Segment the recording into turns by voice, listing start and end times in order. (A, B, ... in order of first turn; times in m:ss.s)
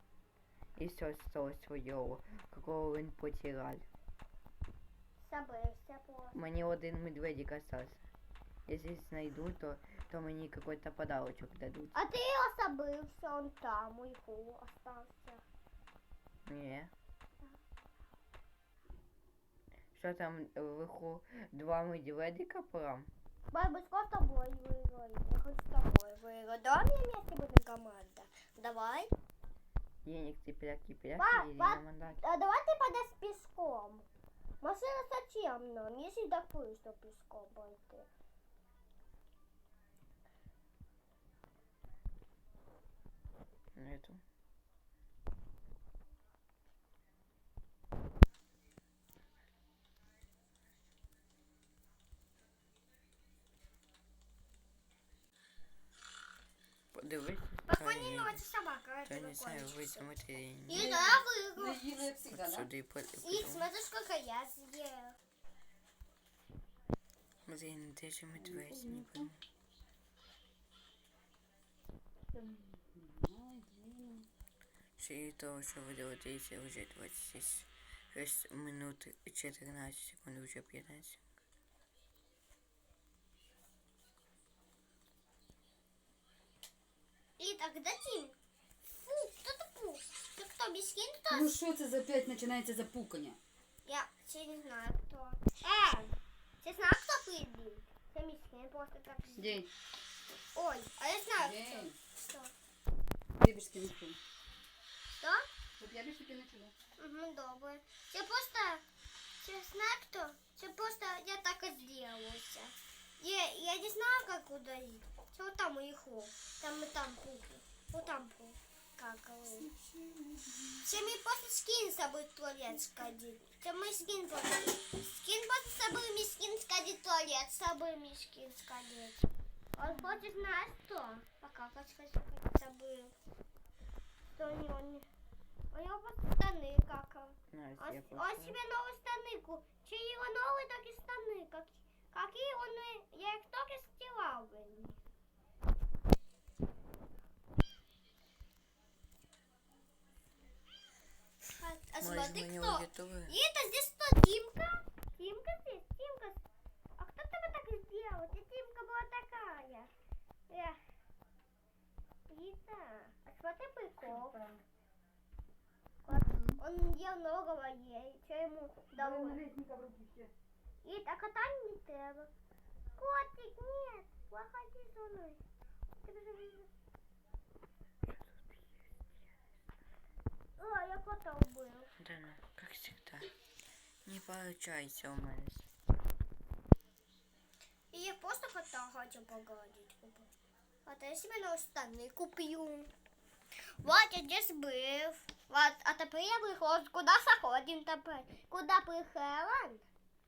0:00.8-0:03.9 A
0:05.2-0:06.4 B
0:06.3-0:08.0 A
0:08.7-0:12.0 A
0:11.9-0:15.4 B
0:16.5-0:16.9 A
0:19.9-0:23.1 A
0:23.5-0:29.1 B
0:30.0-0:32.2 A
0:31.2-0:34.1 B
0:34.6-0:38.1 B
0:43.8-0:44.2 A
0:56.9-0:58.4 A
0:57.7-1:00.1 B
0:59.1-1:00.9 A
1:00.7-1:01.8 B
1:00.7-1:02.7 C
1:02.3-1:03.7 A
1:03.2-1:05.2 B
1:07.5-1:09.4 A
1:08.4-1:09.3 C
1:12.3-1:14.3 C
1:15.0-1:21.2 A
1:27.4-1:28.4 B
1:29.0-1:31.5 B
1:31.3-1:33.4 C
1:33.9-1:39.6 B
1:39.4-1:39.7 C
1:40.6-1:42.5 B
1:41.4-1:42.0 C
1:43.4-1:44.2 C
1:45.2-1:45.5 B
1:45.8-1:46.7 C
1:47.0-1:48.8 B
1:49.4-1:59.7 B
1:59.6-2:00.8 C
2:00.8-2:13.2 B
2:14.3-2:15.1 B
2:15.7-2:25.0 B
2:17.5-2:18.6 A
2:31.6-2:36.4 B
2:32.0-2:33.4 A
2:37.0-2:39.9 B
2:40.5-2:40.8 B
2:42.3-2:44.4 B
2:44.0-2:44.6 C
2:46.1-2:49.4 B
2:46.1-2:46.6 C
2:48.9-2:50.3 C
2:50.8-2:52.3 B
2:53.0-2:55.4 B
2:56.0-2:56.7 B
2:58.1-2:58.9 A
3:00.6-3:01.9 B
3:02.0-3:03.3 A
3:04.0-3:05.7 A
3:07.9-3:10.3 B
3:10.8-3:12.9 B
3:13.8-3:19.9 B